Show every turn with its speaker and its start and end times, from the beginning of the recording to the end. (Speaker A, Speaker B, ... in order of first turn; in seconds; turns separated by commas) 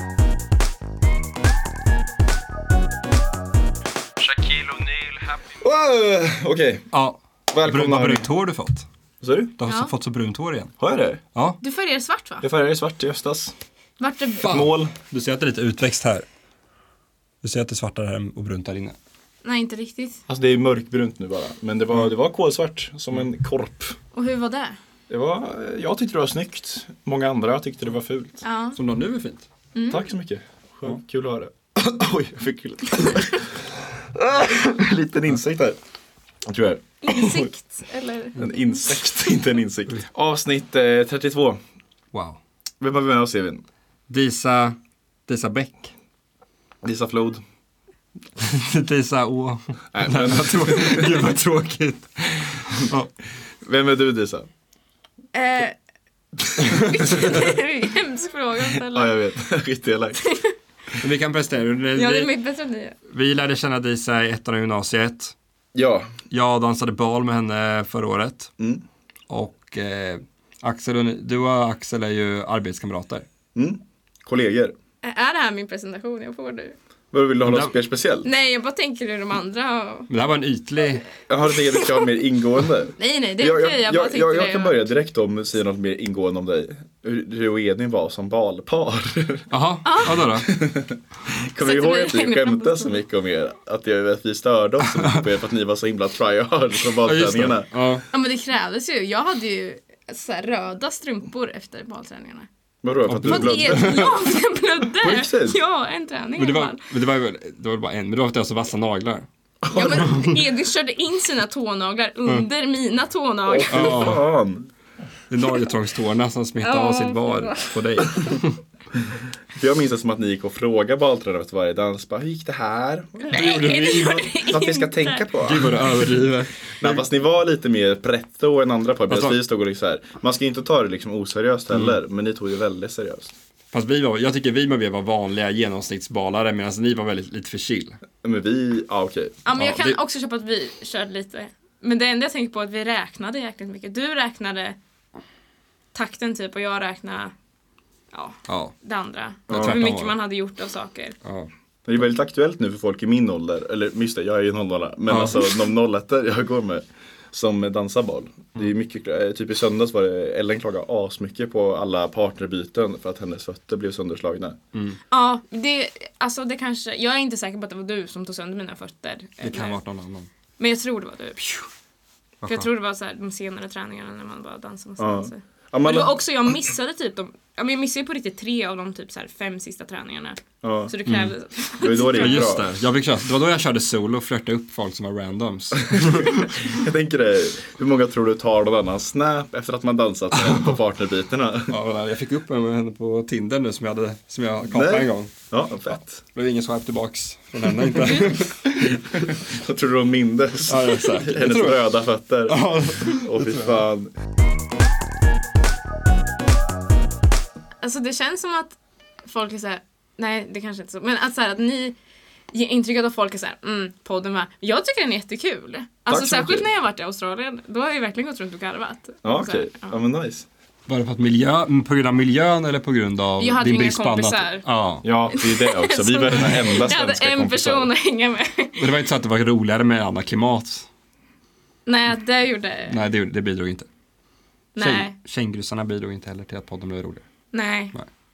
Speaker A: 4.2-6.9, Speaker B: 6.9-8.9, Speaker A: 7.5-8.3, Speaker A: 9.2-9.5, Speaker B: 9.6-10.7, Speaker C: 9.7-9.9, Speaker A: 10.8-11.2, Speaker C: 11.6-12.5, Speaker A: 12.4-13.5, Speaker C: 14.0-14.5, Speaker B: 14.4-16.3, Speaker A: 14.4-14.9, Speaker B: 17.4-19.0, Speaker C: 19.4-20.2, Speaker A: 20.3-24.0, Speaker C: 24.1-24.8, Speaker A: 25.1-28.4, Speaker C: 28.4-28.8, Speaker B: 28.8-29.5, Speaker C: 29.8-30.0, Speaker A: 29.9-33.6, Speaker A: 34.1-35.8, Speaker A: 36.5-37.5, Speaker C: 37.0-38.4, Speaker A: 38.4-41.6, Speaker B: 42.1-42.4, Speaker A: 42.8-43.6, Speaker B: 44.1-44.8, Speaker B: 45.3-45.9, Speaker A: 46.8-47.4, Speaker B: 48.4-53.1, Speaker A: 49.9-51.3, Speaker A: 53.6-54.5, Speaker C: 55.3-55.8, Speaker B: 56.6-57.2, Speaker C: 56.8-59.1, Speaker A: 58.8-60.2, Speaker C: 60.2-60.5, Speaker B: 61.0-62.3, Speaker C: 62.0-63.0, Speaker B: 63.1-65.3, Speaker A: 65.8-66.1, Speaker B: 66.3-68.5, Speaker B: 69.3-73.2, Speaker A: 73.5-74.8, Speaker C: 75.0-76.8, Speaker A: 77.1-78.3, Speaker B: 77.5-77.7, Speaker C: 78.2-80.1, Speaker B: 80.1-81.1, Speaker A: 81.3-89.5, Speaker C: 83.0-84.8, Speaker B: 89.5-90.5, Speaker C: 89.8-90.2, Speaker A: 90.2-97.7, Speaker C: 91.6-93.0, Speaker B: 97.0-98.0, Speaker C: 98.1-102.5, Speaker A: 102.8-104.1, Speaker B: 103.1-104.2, Speaker C: 103.2-106.8, Speaker A: 105.0-105.6, Speaker B: 106.4-109.3, Speaker A: 109.6-110.1, Speaker C: 109.7-114.0, Speaker B: 110.0-110.3, Speaker A: 113.5-114.7, Speaker B: 113.7-114.2, Speaker B: 115.3-118.6, Speaker C: 116.6-118.1, Speaker A: 119.5-126.2, Speaker C: 123.3-125.3, Speaker B: 123.3-123.8, Speaker B: 125.4-127.0, Speaker A: 126.8-133.3, Speaker B: 129.1-129.4, Speaker B: 133.7-138.0, Speaker A: 138.2-139.4, Speaker C: 139.4-144.8, Speaker B: 139.6-140.0, Speaker C: 145.9-147.3, Speaker C: 148.1-151.2, Speaker B: 148.5-148.7, Speaker A: 149.5-149.8, Speaker B: 149.5-150.2, Speaker B: 151.2-151.5, Speaker A: 151.9-164.6, Speaker B: 155.1-155.4, Speaker C: 165.1-169.8, Speaker B: 169.4-170.3, Speaker C: 170.6-171.7, Speaker B: 172.4-172.7, Speaker C: 172.5-182.6, Speaker A: 175.0-176.2, Speaker A: 180.6-180.9, Speaker B: 181.1-181.3, Speaker A: 181.8-182.7, Speaker B: 182.2-186.7, Speaker A: 185.9-191.8, Speaker B: 191.7-199.3, Speaker A: 194.7-196.2, Speaker A: 197.9-198.2, Speaker A: 198.8-204.1, Speaker B: 200.7-201.8, Speaker B: 202.5-203.8, Speaker C: 207.8-212.0, Speaker C: 212.5-219.9, Speaker A: 216.1-216.7, Speaker A: 219.2-220.5, Speaker B: 220.9-225.1, Speaker C: 223.4-224.7, Speaker A: 225.0-227.9, Speaker C: 225.3-228.8, Speaker B: 228.8-230.9, Speaker C: 231.9-233.0, Speaker B: 232.9-233.9, Speaker C: 234.8-235.2, Speaker B: 234.8-237.2, Speaker C: 237.5-237.9